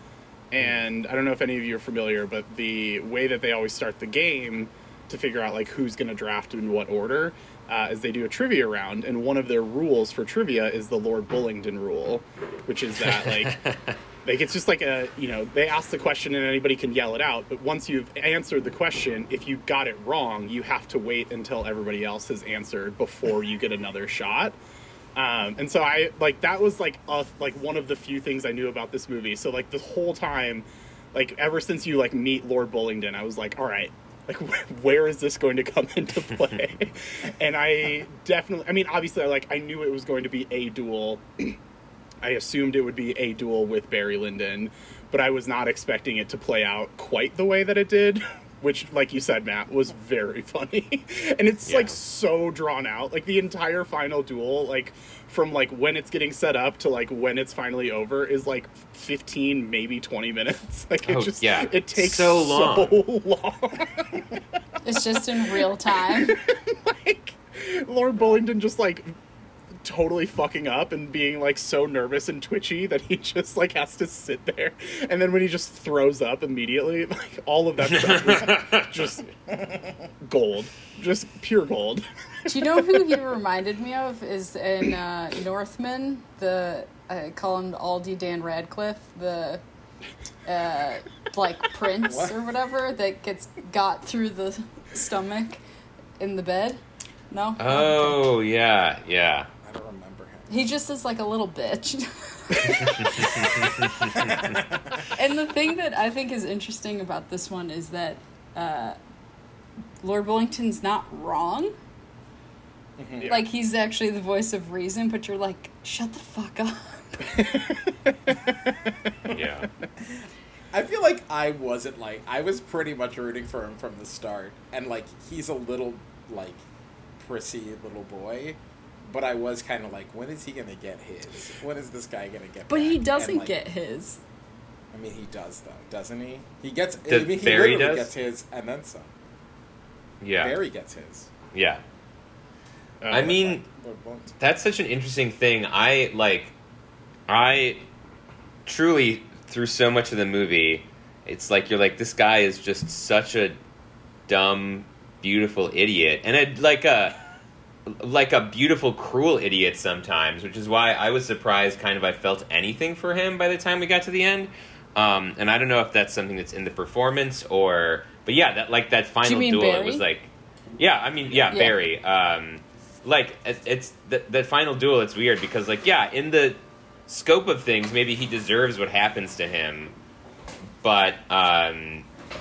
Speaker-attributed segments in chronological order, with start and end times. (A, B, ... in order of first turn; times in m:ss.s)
0:00.5-0:13.6 A
0:13.0-0:14.0 B
0:14.2-0:24.6 A
0:25.2-0:41.6 A
0:42.2-1:04.4 A
0:51.7-0:52.0 B
1:01.0-1:03.0 B
1:04.8-1:06.4 C
1:05.6-1:09.2 A
1:09.8-1:19.2 A
1:18.0-1:19.2 B
1:20.2-1:23.2 A
1:22.5-1:29.6 C
1:30.4-1:35.6 C
1:32.0-1:32.4 D
1:36.2-1:36.8 C
1:37.3-1:38.2 C
1:37.6-1:39.5 B
1:39.6-1:40.5 D
1:40.5-1:43.8 C
1:43.2-1:44.3 B
1:44.2-1:45.0 D
1:45.2-1:49.0 C
1:50.0-1:51.7 C
1:53.0-1:53.4 D
1:53.3-1:57.6 C
1:59.3-1:59.7 B
2:00.0-2:06.6 D
2:07.2-2:13.5 D
2:12.7-2:14.2 C
2:14.9-2:19.1 D
2:17.1-2:18.1 B
2:20.2-2:20.6 B
2:20.4-2:21.3 D
2:21.5-2:21.8 B
2:23.0-2:23.3 A
2:23.1-2:23.6 B
2:23.1-2:24.4 D
2:24.4-2:26.5 B
2:27.3-2:27.9 B
2:28.7-2:33.6 B
2:34.3-2:37.2 B
2:37.9-3:00.0 B
2:49.2-2:50.0 C
2:51.5-2:51.8 C
3:00.8-3:02.1 B